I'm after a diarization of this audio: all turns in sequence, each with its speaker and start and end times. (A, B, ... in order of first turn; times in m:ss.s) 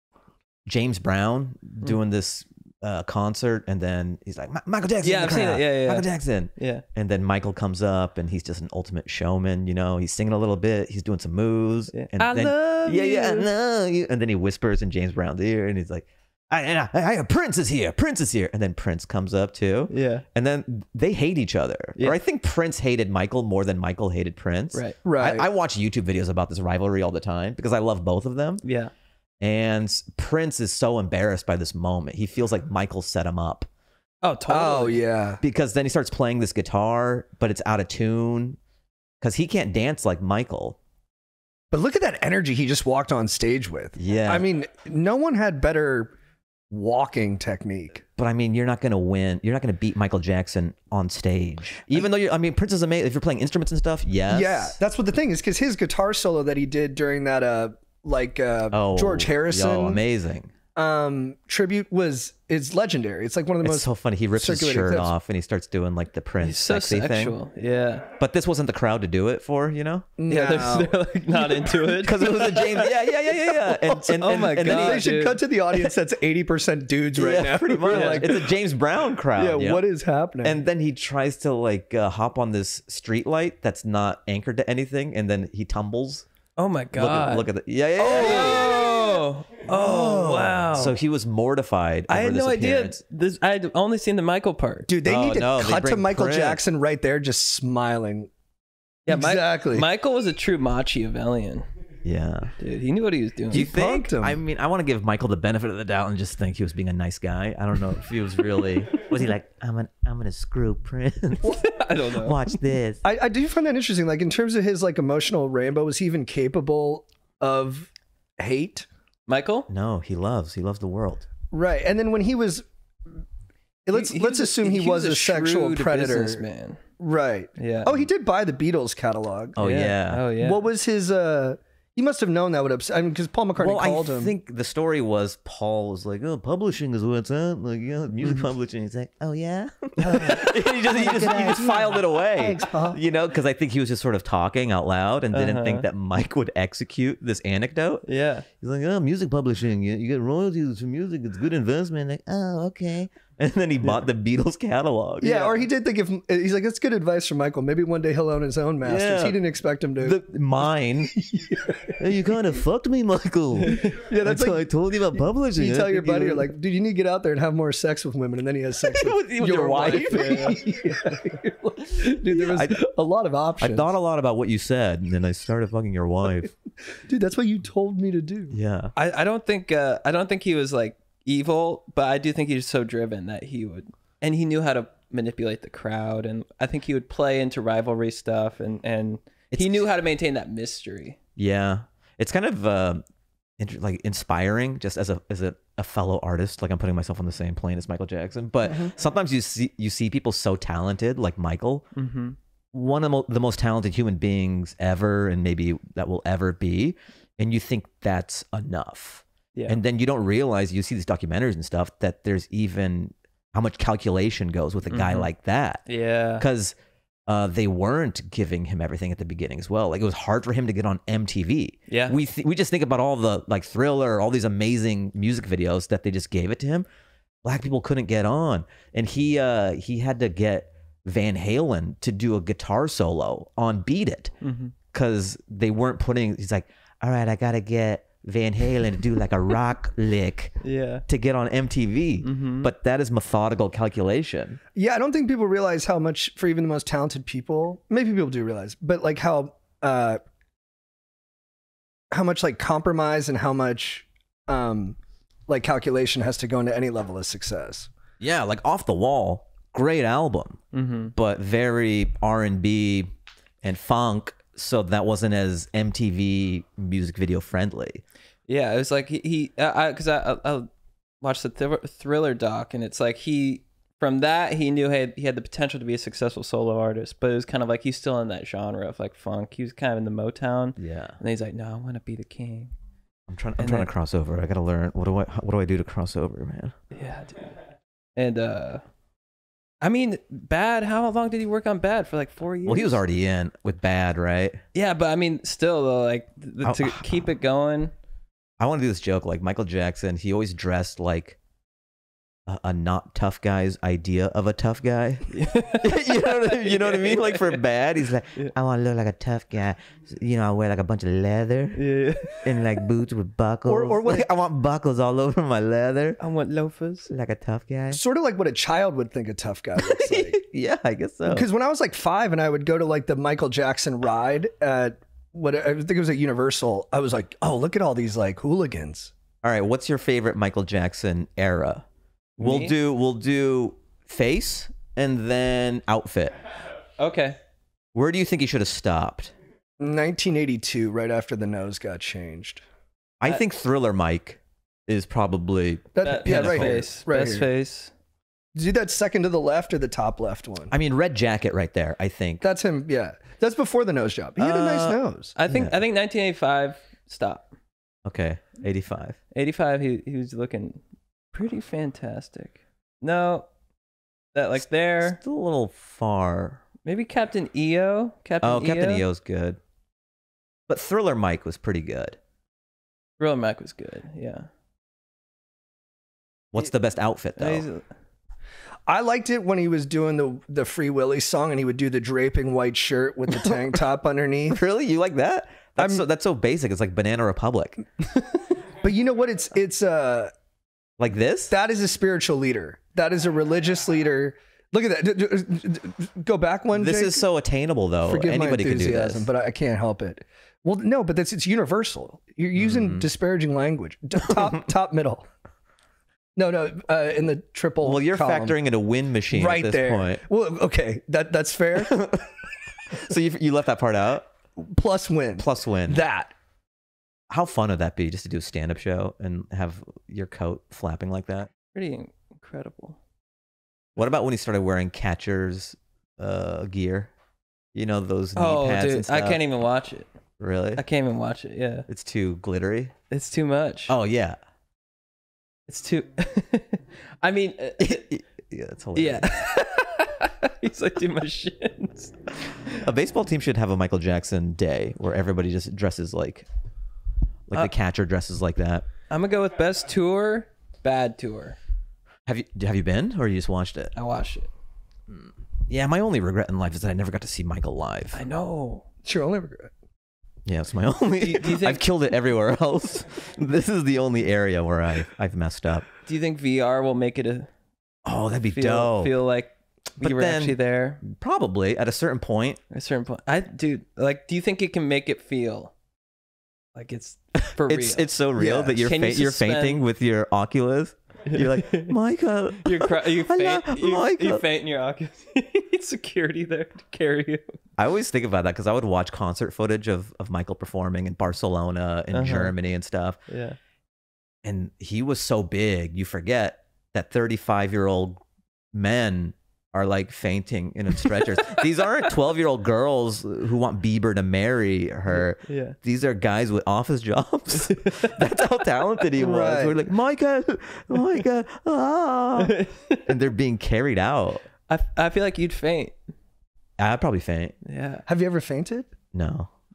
0:00.6-0:28.6 A
0:05.0-0:06.8 B
0:11.9-0:13.5 B
0:19.9-0:20.2 B
0:24.7-0:25.0 B
0:25.0-0:25.5 C
0:28.6-0:28.9 B
0:29.4-0:33.7 A
0:34.2-0:35.0 B
0:34.5-0:35.4 C
0:35.4-0:38.6 A
0:39.2-0:40.8 A
0:41.7-0:46.1 C
0:44.0-0:44.5 A
0:46.7-0:48.0 C
0:48.2-0:54.8 A
0:54.3-1:00.0 C
0:58.7-1:00.5 A
1:00.8-1:05.1 C
1:03.6-1:07.4 A
1:06.4-1:08.1 B
1:08.2-1:10.1 A
1:10.2-1:12.9 C
1:10.3-1:12.9 B
1:12.0-1:15.1 A
1:13.5-1:18.5 C
1:14.2-1:15.4 B
1:17.1-1:19.8 A
1:17.9-1:18.3 B
1:19.4-1:20.6 C
1:20.4-1:26.3 A
1:26.6-1:27.5 B
1:27.0-1:28.8 A
1:28.0-1:30.9 C
1:28.0-1:30.9 B
1:30.7-1:33.0 A
1:32.1-1:34.9 B
1:34.9-1:38.3 C
1:35.0-1:36.6 A
1:39.1-1:41.7 B
1:39.1-1:39.9 C
1:42.0-1:42.5 A
1:42.6-1:43.6 B
1:43.5-1:53.0 A
1:43.5-1:44.4 C
1:51.4-1:52.4 B
1:53.0-1:58.9 C
1:59.3-1:59.7 B
1:59.7-2:01.3 A
2:01.5-2:03.2 C
2:03.9-2:06.4 C
2:03.9-2:06.8 B
2:07.0-2:09.6 C
2:07.6-2:07.9 B
2:09.6-2:10.2 A
2:09.6-2:10.6 B
2:10.4-2:14.3 C
2:13.6-2:28.0 A
2:20.0-2:23.0 C
2:25.3-2:25.9 B
2:28.0-2:28.5 B
2:28.6-2:35.5 A
2:35.2-2:40.3 C
2:38.8-2:39.4 A
2:40.0-2:41.2 A
2:41.1-2:42.0 C
2:42.0-2:46.5 A
2:43.6-2:43.9 B
2:43.8-2:53.9 C
2:48.8-2:50.6 A
2:49.8-2:50.6 B
2:52.3-2:52.8 A
2:53.6-2:56.5 A
2:57.1-2:58.6 C
2:58.5-2:58.9 A
2:59.0-3:11.2 B
3:09.5-3:09.8 A
3:11.4-3:13.0 A
3:13.6-3:21.9 A
3:22.0-3:22.4 B
3:22.7-3:35.9 A
3:29.5-3:29.8 B
3:34.9-3:35.3 B
3:35.9-3:36.4 B
3:36.4-3:36.8 A
3:37.3-3:46.9 A
3:41.9-3:42.2 B
3:47.4-3:54.3 A
3:54.4-3:54.7 B
3:54.9-4:04.6 A
4:00.6-4:01.0 B
4:02.2-4:02.7 B
4:04.8-4:10.2 C
4:12.1-4:15.0 C
4:15.5-4:17.9 C
4:18.2-4:20.6 A
4:20.7-4:21.1 B
4:21.1-4:23.1 A
4:23.6-4:28.0 A
4:28.5-4:30.7 B
4:31.2-4:42.7 B
4:40.8-4:41.2 A
4:43.3-4:46.8 A
4:43.6-4:43.9 B
4:46.9-4:47.6 B
4:48.2-4:48.8 B
4:49.8-4:53.0 B
4:52.6-4:54.6 A
4:54.8-4:57.9 B
4:56.6-4:57.3 A
4:58.6-5:01.4 A
5:02.5-5:16.2 A
5:05.3-5:07.6 B
5:11.8-5:12.4 B
5:13.7-5:14.3 C
5:16.2-5:17.1 B
5:17.1-5:18.0 A
5:17.9-5:20.4 C
5:20.0-5:21.5 A
5:21.2-5:29.1 C
5:29.4-5:31.8 A
5:32.4-5:36.4 A
5:32.4-5:32.7 B
5:37.0-5:37.4 B
5:37.9-5:39.4 A
5:39.8-5:42.6 C
5:43.2-5:46.8 A
5:45.9-5:47.5 C
5:46.0-5:47.9 B
5:48.6-5:50.7 C
5:50.7-5:52.4 A
5:52.4-5:55.4 C
5:54.4-5:55.8 A
5:55.4-5:57.5 B
5:58.0-5:59.2 A
5:59.3-6:00.8 B
6:01.3-6:03.5 B
6:04.3-6:05.2 B
6:04.6-6:06.6 A
6:06.8-6:09.0 B
6:08.4-6:09.6 A
6:10.7-6:12.2 A
6:13.2-6:14.5 B
6:16.5-6:17.7 A
6:17.4-6:17.8 B
6:18.9-6:24.6 C
6:23.3-6:23.8 A
6:24.5-6:27.8 A
6:25.8-6:26.0 C
6:28.8-6:30.3 C
6:31.0-6:31.5 A
6:31.5-6:37.2 C
6:36.7-6:39.3 A
6:38.0-6:45.3 C
6:42.6-6:43.1 A
6:46.4-6:48.6 C
6:47.8-6:50.2 A
6:49.3-6:52.0 C
6:51.8-6:52.3 A
6:52.9-6:54.3 A
6:54.6-6:56.3 C
6:55.4-6:56.0 A
6:57.3-7:01.5 A
7:01.7-7:03.0 B
7:04.0-7:07.1 A
7:07.7-7:09.4 A
7:08.4-7:10.1 B
7:10.4-7:10.8 A
7:10.8-7:11.9 B
7:11.9-7:12.9 A
7:13.1-7:13.9 B
7:13.9-7:14.4 A
7:15.7-7:18.0 B
7:17.8-7:19.3 A
7:18.9-7:22.1 B
7:22.6-7:26.5 A
7:27.5-7:28.9 A
7:29.1-7:31.6 B
7:32.3-7:33.9 A
7:33.9-7:34.5 B
7:35.1-7:38.2 A
7:38.1-7:38.8 B
7:39.0-7:39.7 C
7:40.4-7:45.9 A
7:41.2-7:41.8 B
7:46.1-7:47.5 B
7:48.0-7:49.1 A
7:48.5-7:51.0 B
7:50.0-7:52.6 A
7:52.7-7:55.7 B
7:56.7-7:58.0 B
7:57.4-8:04.4 A
7:58.4-7:58.9 C
7:58.9-7:59.8 B
8:01.3-8:01.9 B
8:02.6-8:07.6 B
8:07.8-8:13.2 A
8:12.1-8:12.6 B
8:13.3-8:13.6 B
8:14.4-8:34.4 A
8:25.4-8:25.8 B
8:29.2-8:29.8 C
8:32.4-8:33.1 B
8:34.7-8:36.0 B
8:36.8-8:37.6 A
8:37.6-8:38.0 B
8:38.1-8:38.9 C
8:39.1-8:39.5 A